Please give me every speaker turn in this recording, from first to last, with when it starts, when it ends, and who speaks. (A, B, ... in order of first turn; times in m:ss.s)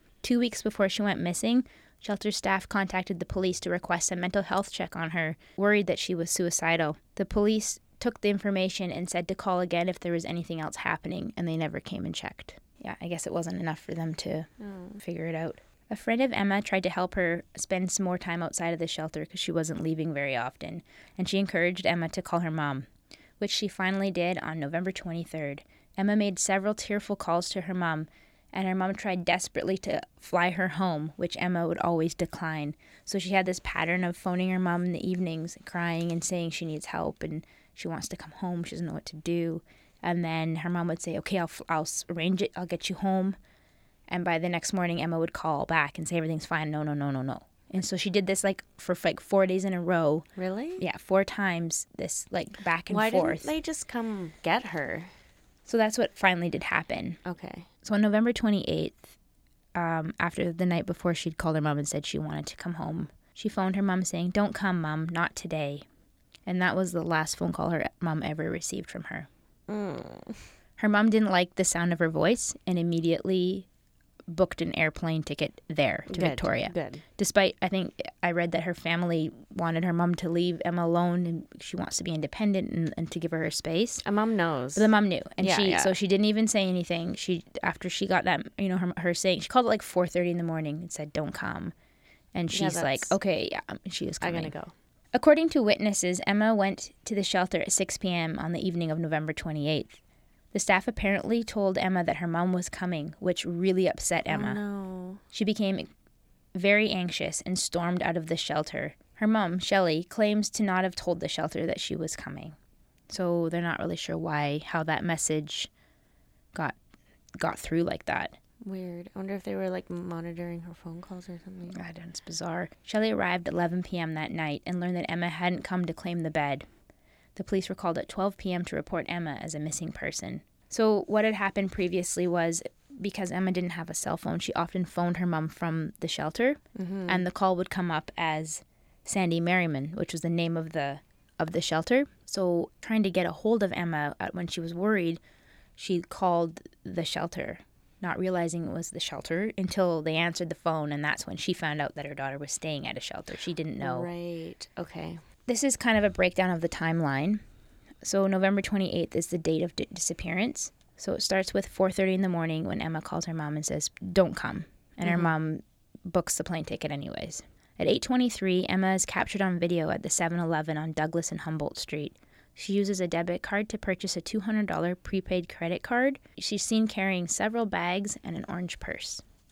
0:00.2-0:22.9 A
0:14.6-0:15.0 B
0:23.4-0:43.4 A
0:44.1-0:50.2 A
0:50.4-0:50.8 B
0:50.8-0:53.5 A
0:52.9-0:55.1 B
0:55.6-0:57.2 A
0:57.2-0:57.7 B
0:57.8-0:59.1 A
0:59.7-1:05.8 A
1:06.4-1:09.3 A
1:09.7-1:10.4 B
1:10.8-1:13.7 A
1:14.3-1:24.0 A
1:16.1-1:17.0 B
1:24.0-1:25.9 B
1:24.8-1:31.7 A
1:32.3-1:34.5 A
1:32.5-1:33.1 B
1:34.2-1:34.7 B
1:35.1-1:40.0 A
1:40.5-1:44.6 A
1:44.3-1:45.2 B
1:45.3-1:45.9 A
1:46.5-1:52.6 A
1:53.1-1:55.7 A
1:57.4-1:58.3 A
1:58.6-2:01.8 B
2:01.7-2:06.6 A
2:07.4-2:25.2 A
2:16.7-2:17.2 B
2:25.8-2:34.1 A
2:33.8-2:35.2 B
2:35.5-2:37.4 A
2:38.0-2:59.2 A
2:45.0-2:45.3 B